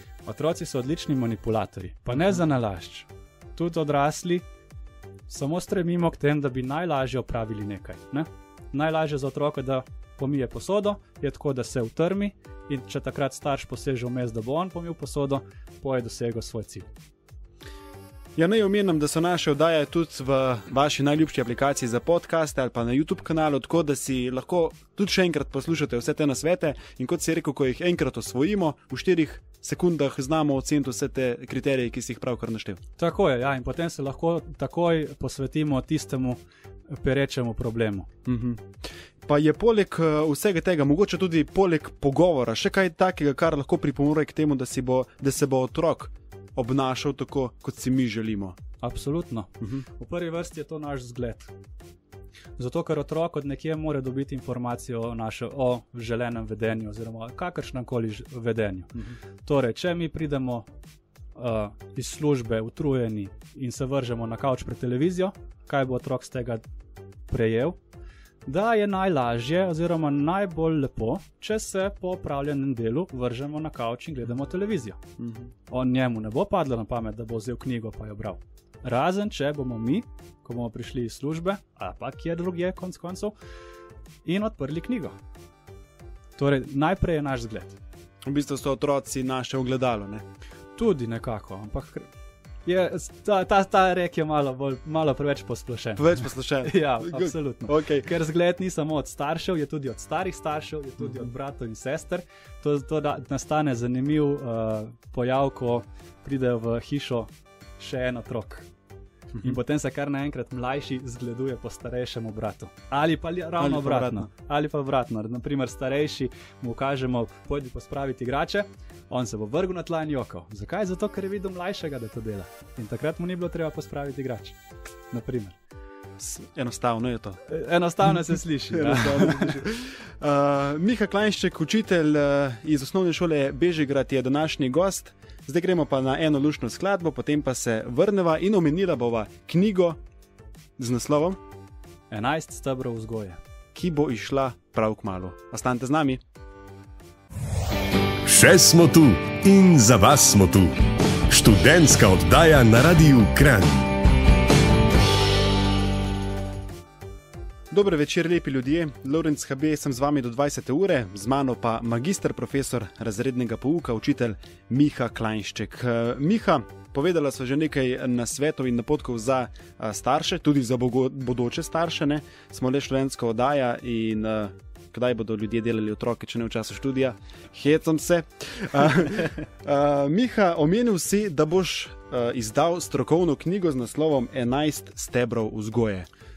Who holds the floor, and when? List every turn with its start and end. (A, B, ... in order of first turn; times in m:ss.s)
0:00.2-0:04.4 A
0:05.3-0:16.9 A
0:18.4-0:32.8 B
0:33.0-0:38.1 A
0:38.2-0:48.6 B
0:48.8-0:51.5 A
0:52.6-1:00.7 A
1:01.4-1:06.6 A
1:07.3-1:07.8 A
1:08.4-1:15.0 A
1:15.2-1:15.5 B
1:15.7-1:23.3 A
1:24.2-1:25.1 A
1:26.4-1:27.8 A
1:28.2-1:30.2 B
1:30.8-1:32.1 A
1:32.6-1:48.7 A
1:36.0-1:38.1 B
1:49.4-2:04.6 A
1:53.6-1:54.3 B
2:05.1-2:05.6 A
2:06.2-2:07.4 B
2:07.4-2:09.6 A
2:08.1-2:20.0 B
2:20.8-2:21.4 B
2:22.1-2:23.4 A
2:23.7-2:26.2 B
2:28.2-2:30.8 C
2:31.3-2:33.9 C
2:37.7-3:06.1 B